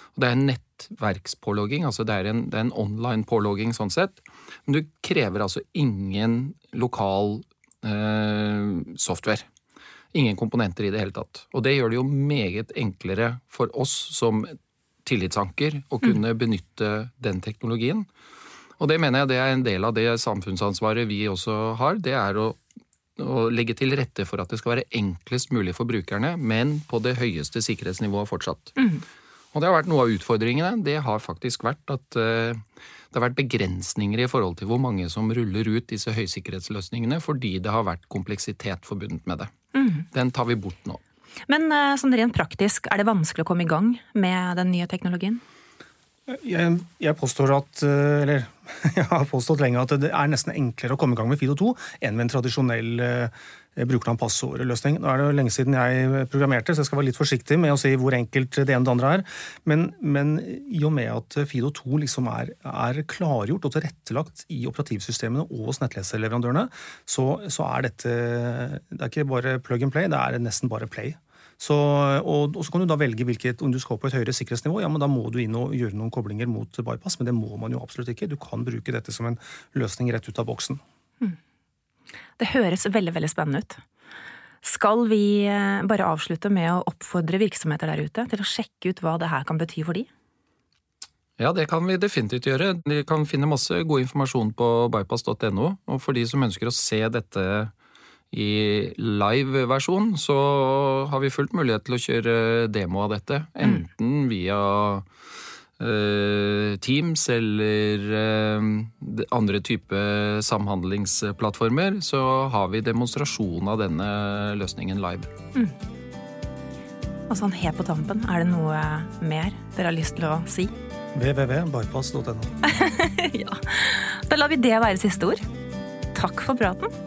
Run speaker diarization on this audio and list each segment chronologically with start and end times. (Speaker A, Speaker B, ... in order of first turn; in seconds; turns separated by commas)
Speaker A: 0.2-9.4, Speaker A: 10.1-14.5, Speaker A: 15.1-18.1, Speaker A: 18.8-22.6, Speaker A: 23.2-28.9, Speaker A: 29.5-39.5, Speaker B: 39.7-40.0, Speaker A: 40.1-41.0, Speaker B: 41.5-45.4, Speaker C: 46.3-80.8, Speaker B: 82.4-83.8, Speaker B: 84.6-90.1, Speaker A: 91.4-97.7, Speaker A: 98.3-105.0, Speaker A: 105.8-115.3, Speaker B: 117.3-120.7, Speaker C: 121.1-122.5, Speaker B: 122.6-125.4, Speaker B: 126.1-126.9